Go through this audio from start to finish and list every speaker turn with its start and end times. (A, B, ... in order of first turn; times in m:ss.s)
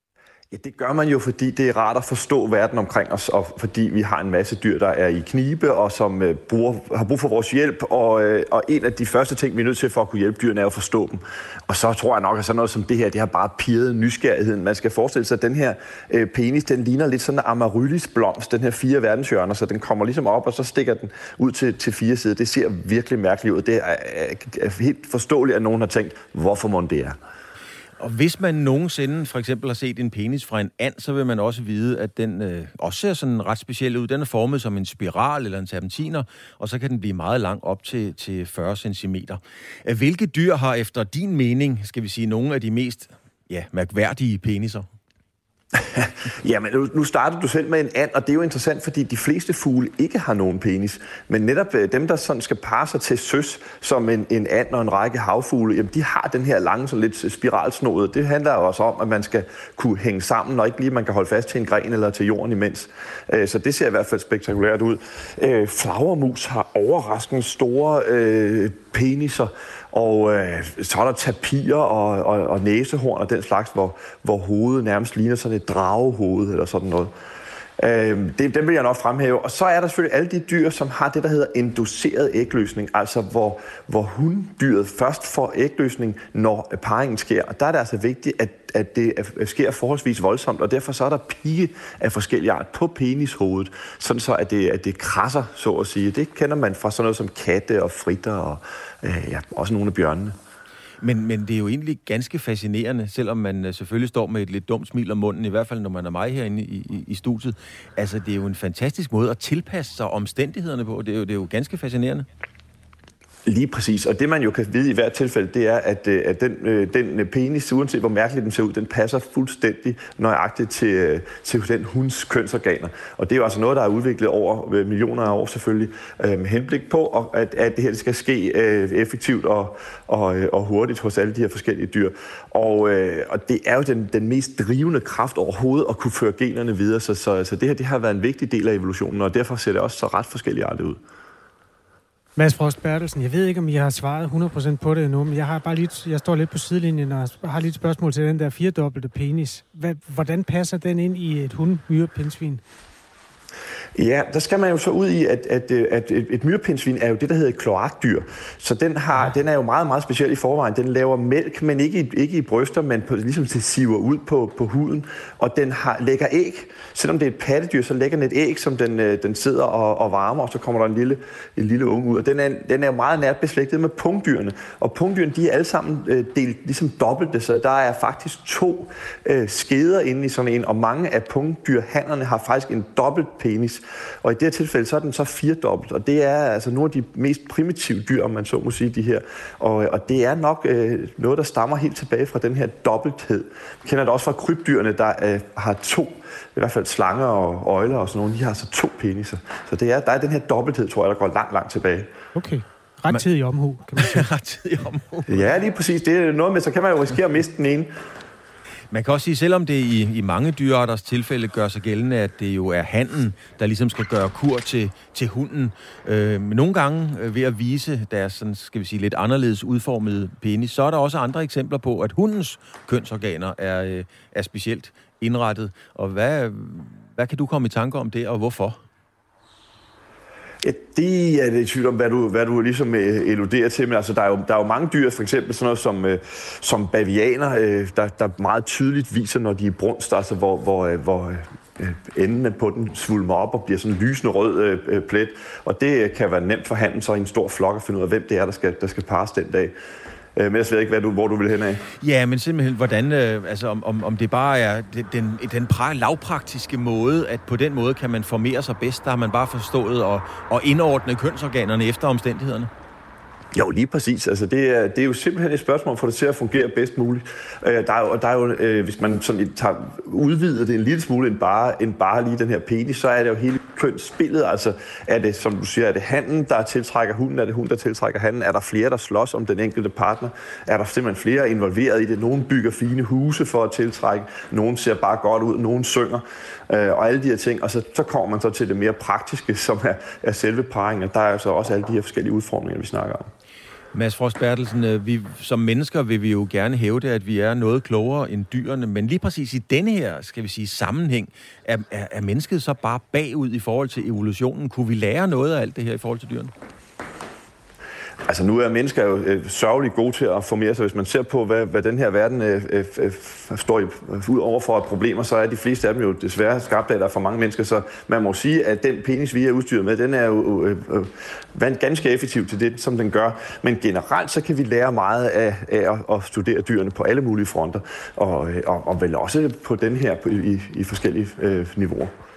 0:00.5-0:27.2 A
0:28.0-0:44.9 B
0:45.9-1:17.1 A
1:17.8-1:40.3 A
1:41.0-1:52.2 B
1:53.5-2:21.0 A
2:22.4-2:32.6 C
2:34.0-3:22.1 A
3:22.3-3:24.2 C
3:24.0-3:25.5 B
3:25.3-3:27.9 A
3:28.9-3:48.8 B
3:50.6-4:09.7 A
4:10.3-4:11.8 A
4:12.0-4:22.7 B
4:23.5-4:53.3 A
4:53.9-5:06.5 B
5:08.2-5:32.1 A